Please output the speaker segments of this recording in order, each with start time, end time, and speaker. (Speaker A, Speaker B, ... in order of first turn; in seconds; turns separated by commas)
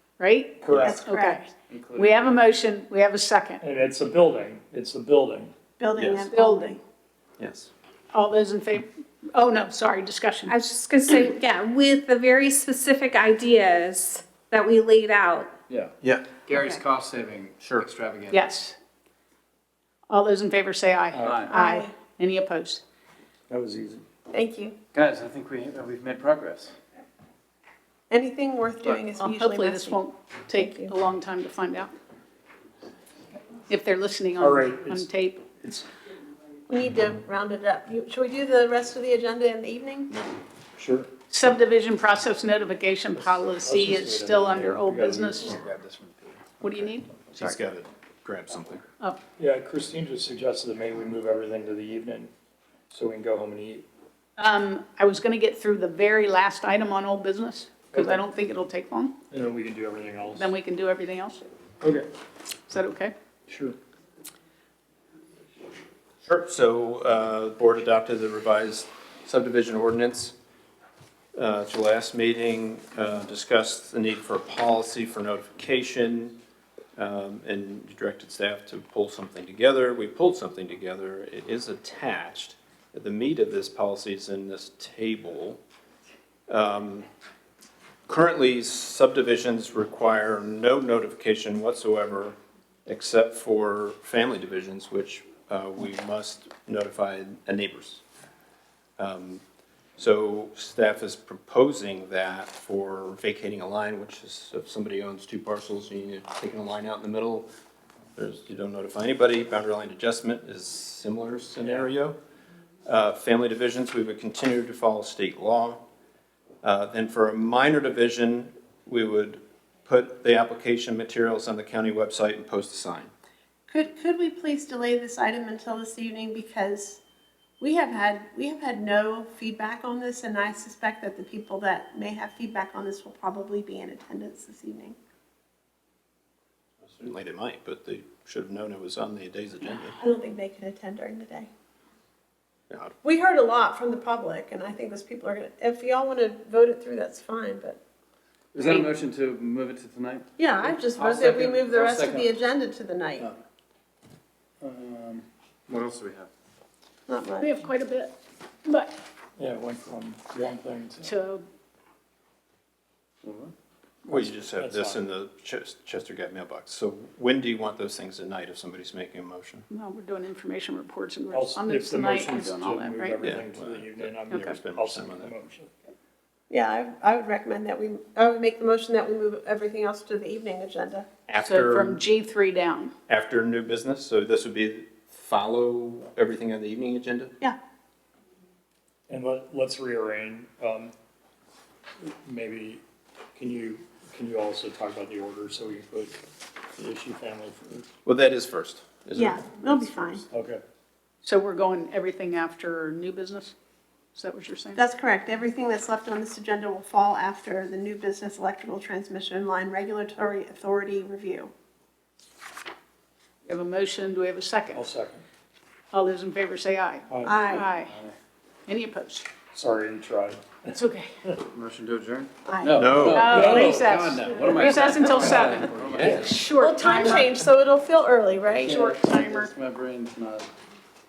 Speaker A: 0.2-3.6, Speaker B: 0.6-1.0, Speaker C: 0.7-1.0, Speaker D: 0.8-1.4, Speaker E: 1.7-2.4, Speaker B: 3.6-5.5, Speaker D: 5.8-6.8, Speaker C: 6.0-6.3, Speaker A: 6.3-6.8, Speaker C: 7.4-7.7, Speaker A: 8.1-10.6, Speaker F: 10.5-15.5, Speaker C: 16.0-16.3, Speaker E: 16.5-18.4, Speaker C: 17.6-17.9, Speaker A: 18.3-18.8, Speaker A: 20.1-22.8, Speaker B: 21.1-21.5, Speaker E: 21.2-21.5, Speaker D: 21.5-21.9, Speaker B: 23.5-24.1, Speaker D: 24.3-24.8, Speaker E: 24.9-26.8, Speaker D: 28.1-30.0, Speaker A: 29.2-31.9, Speaker D: 30.5-30.9, Speaker A: 33.7-35.5, Speaker B: 34.4-35.1, Speaker B: 35.6-35.9, Speaker D: 36.7-40.1, Speaker B: 40.8-41.1, Speaker A: 41.3-45.6, Speaker B: 43.2-45.6, Speaker E: 45.6-46.6, Speaker A: 46.6-47.2, Speaker C: 47.3-48.9, Speaker B: 49.4-52.3, Speaker B: 52.9-53.9, Speaker A: 54.4-59.1, Speaker B: 57.9-58.2, Speaker B: 59.3-60.5, Speaker A: 60.4-61.4, Speaker B: 61.8-62.1, Speaker A: 62.7-63.1, Speaker B: 63.5-63.8, Speaker C: 66.2-70.3, Speaker C: 71.3-76.3, Speaker C: 77.0-85.6, Speaker C: 86.5-87.1, Speaker C: 88.1-98.0, Speaker C: 99.0-99.4, Speaker C: 100.0-107.5, Speaker C: 108.2-112.2, Speaker C: 112.9-115.8, Speaker C: 116.6-123.1, Speaker D: 123.7-127.0, Speaker D: 127.6-135.0, Speaker C: 136.8-140.0, Speaker D: 140.0-141.5, Speaker C: 142.7-143.0, Speaker D: 143.0-147.8, Speaker E: 148.5-152.3, Speaker D: 150.4-153.3, Speaker E: 154.6-156.3, Speaker D: 157.1-157.5, Speaker A: 157.4-158.1, Speaker A: 158.7-158.9, Speaker B: 159.4-161.1, Speaker A: 161.0-161.4, Speaker E: 163.2-163.5, Speaker C: 164.1-169.7, Speaker B: 164.1-165.0, Speaker A: 169.7-173.2, Speaker B: 171.3-175.8, Speaker C: 173.2-175.3, Speaker D: 176.5-181.1, Speaker C: 181.3-182.0, Speaker A: 181.4-182.9, Speaker C: 183.1-187.3, Speaker B: 189.1-190.9, Speaker B: 192.0-192.8, Speaker B: 193.4-196.2, Speaker B: 196.8-197.9, Speaker C: 198.1-200.3, Speaker D: 199.2-200.2, Speaker B: 200.3-200.6, Speaker A: 201.2-203.5, Speaker A: 204.2-204.8, Speaker D: 204.8-211.5, Speaker A: 213.5-214.8, Speaker B: 214.7-215.2, Speaker A: 215.9-217.9, Speaker B: 217.1-217.4, Speaker D: 217.2-217.7, Speaker A: 218.7-219.3, Speaker B: 219.5-220.8, Speaker A: 220.7-221.1, Speaker E: 221.5-226.4, Speaker D: 222.5-222.8, Speaker A: 222.5-227.3, Speaker C: 222.8-223.7, Speaker B: 223.5-223.9, Speaker C: 226.0-226.3, Speaker D: 226.5-228.7, Speaker E: 228.6-230.5, Speaker A: 228.6-229.5